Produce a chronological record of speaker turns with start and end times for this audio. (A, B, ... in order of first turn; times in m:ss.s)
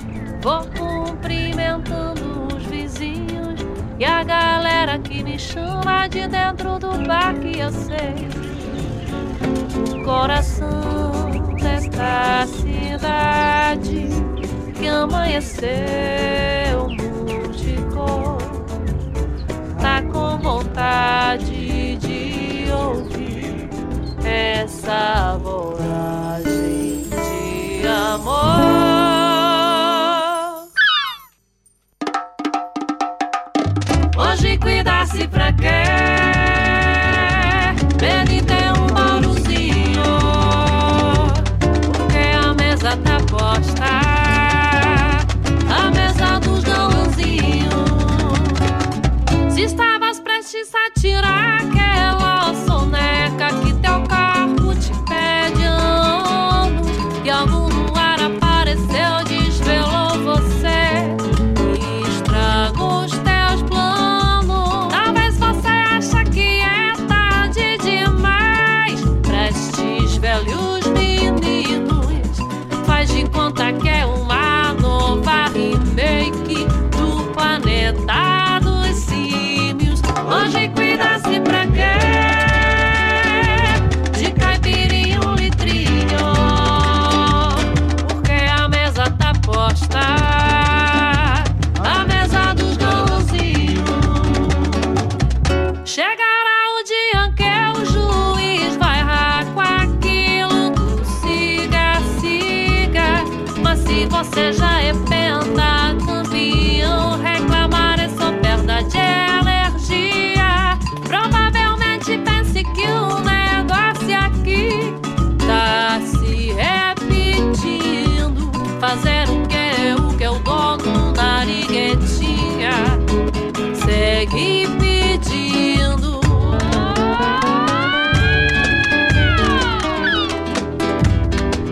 0:00.4-0:08.5 A
0:10.0-0:18.8 A
0:19.8-0:23.7 A
0:24.2-0:30.6 A
0:34.1-0:48.6 A
0:49.5-1:34.9 A
1:35.8-2:03.0 A
2:03.7-2:07.9 A
2:09.4-2:10.1 A